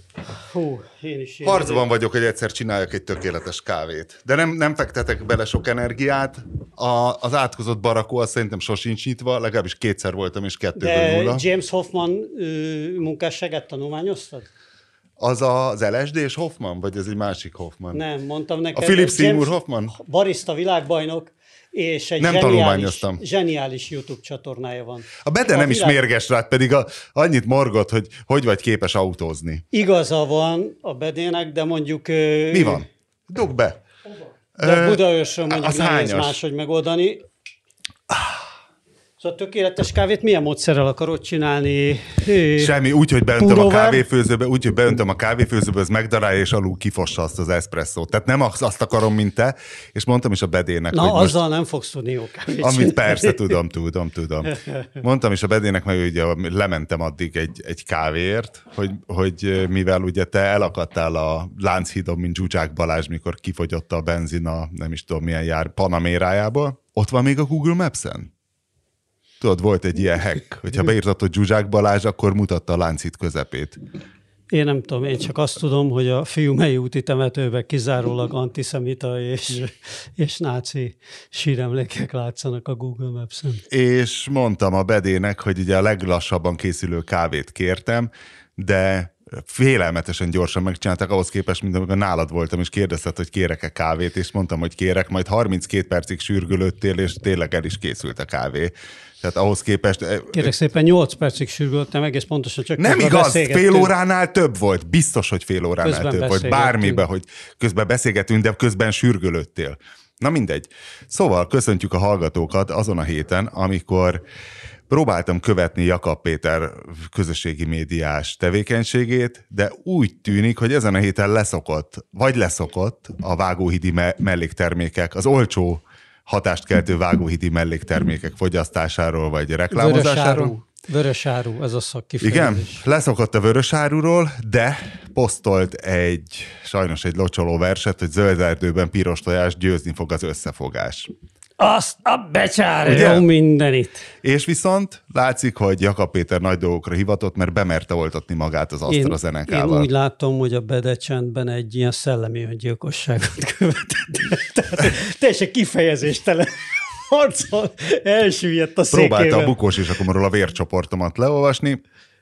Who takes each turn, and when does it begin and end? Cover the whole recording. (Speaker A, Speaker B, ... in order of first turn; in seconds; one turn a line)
Speaker A: 0.4-1.8
Speaker B: 1.4-11.4
Speaker A: 10.8-14.5
Speaker B: 15.2-18.0
Speaker A: 17.9-26.0
Speaker B: 18.7-19.9
Speaker B: 22.2-23.2
Speaker B: 25.2-29.6
Speaker A: 29.7-32.8
Speaker B: 32.5-33.8
Speaker B: 34.6-36.4
Speaker A: 34.6-37.2
Speaker B: 38.1-38.4
Speaker A: 39.2-42.7
Speaker B: 42.6-51.4
Speaker A: 43.4-44.0
Speaker A: 50.9-53.5
Speaker B: 52.6-68.3
Speaker B: 69.4-73.8
Speaker A: 74.5-83.6
Speaker B: 83.7-100.5
Speaker A: 100.3-103.9
Speaker B: 102.8-114.2
Speaker A: 105.8-107.0
Speaker B: 114.9-130.5
Speaker A: 129.7-132.8
Speaker B: 132.2-141.1
Speaker A: 141.6-144.0
Speaker B: 142.9-143.2
Speaker B: 144.2-149.9
Speaker A: 148.9-159.6
Speaker B: 158.9-161.8